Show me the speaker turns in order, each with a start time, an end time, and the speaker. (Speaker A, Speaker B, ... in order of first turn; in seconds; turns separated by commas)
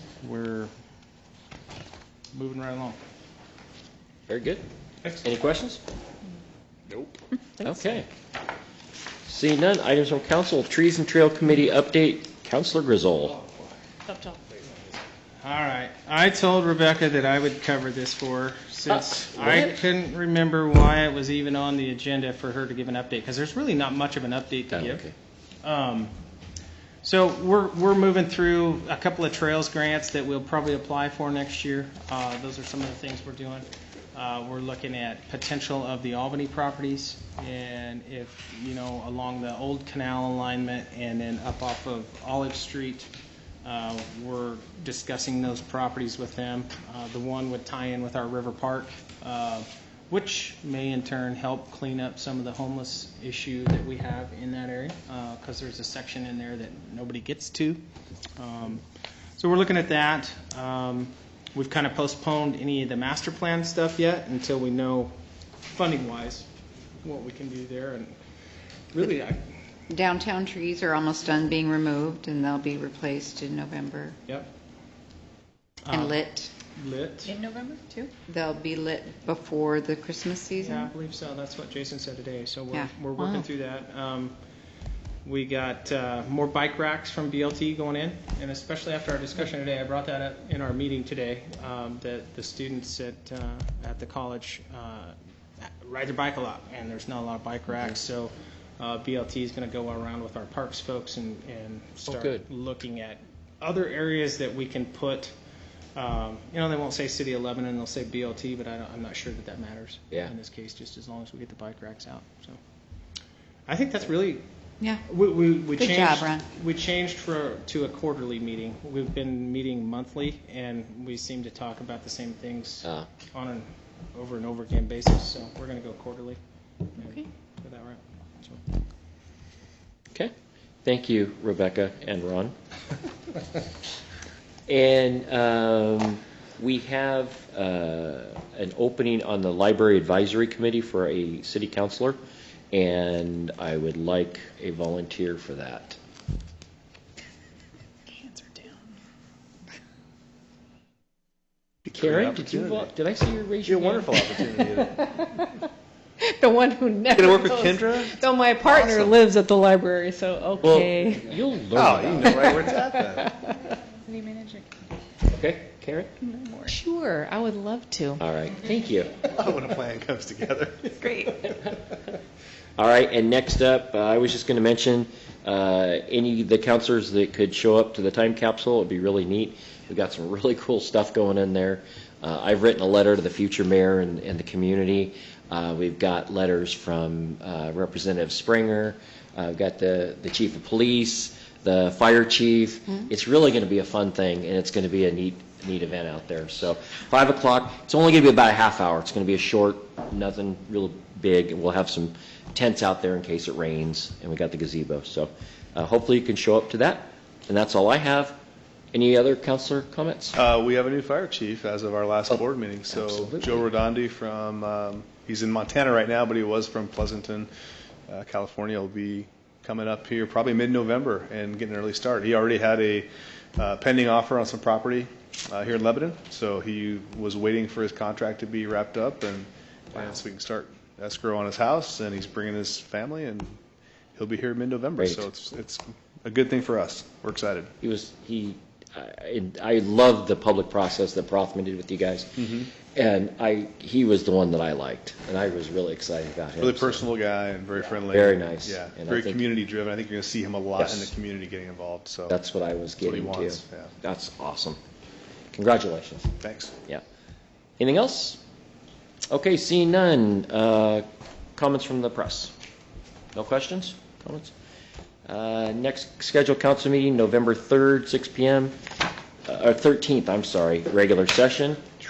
Speaker A: 0.2-0.7, Speaker A: 2.3-3.0, Speaker B: 4.3-4.6, Speaker B: 5.2-5.8, Speaker B: 7.6-8.1, Speaker B: 9.2-13.4, Speaker A: 15.4-25.0, Speaker B: 18.9-19.8, Speaker B: 24.7-25.1, Speaker A: 25.6-26.1, Speaker A: 27.0-43.1, Speaker A: 43.6-57.8, Speaker A: 58.4-58.8, Speaker A: 59.4-66.5, Speaker A: 67.0-68.2, Speaker A: 68.9-69.4, Speaker C: 69.9-74.2, Speaker A: 75.8-76.2, Speaker C: 75.9-76.5, Speaker A: 76.7-77.4, Speaker D: 77.3-78.1, Speaker C: 78.3-80.9, Speaker A: 80.6-84.3, Speaker D: 83.2-83.5, Speaker A: 85.2-105.3, Speaker B: 102.0-102.4, Speaker A: 105.9-112.6, Speaker A: 113.7-114.4, Speaker A: 115.0-126.4, Speaker C: 115.8-116.4, Speaker B: 122.8-123.1, Speaker A: 127.0-128.6, Speaker B: 130.8-132.5, Speaker B: 134.7-142.2, Speaker B: 142.7-146.0, Speaker D: 148.1-148.8, Speaker E: 151.9-152.9, Speaker B: 151.9-153.9, Speaker E: 153.7-155.1, Speaker D: 154.8-155.3, Speaker D: 156.2-161.3, Speaker E: 157.1-159.2, Speaker B: 160.6-162.5, Speaker E: 161.7-163.3, Speaker D: 162.2-164.7, Speaker B: 165.3-166.1, Speaker D: 166.2-168.2, Speaker B: 168.2-169.2, Speaker E: 169.3-171.1, Speaker D: 171.0-171.5, Speaker B: 172.8-208.4, Speaker B: 208.9-210.3, Speaker E: 210.3-217.5, Speaker B: 212.3-213.7, Speaker E: 218.1-233.6, Speaker E: 234.1-237.7, Speaker B: 235.0-235.2, Speaker B: 237.8-247.0, Speaker E: 242.4-242.7, Speaker E: 246.6-252.3, Speaker B: 247.8-249.4, Speaker B: 250.8-251.1, Speaker B: 252.3-254.8, Speaker E: 253.0-253.9, Speaker B: 255.5-256.3, Speaker E: 256.4-256.7, Speaker B: 257.8-258.4, Speaker B: 259.3-262.5, Speaker B: 263.3-264.5, Speaker B: 265.2-268.7, Speaker B: 269.4-271.9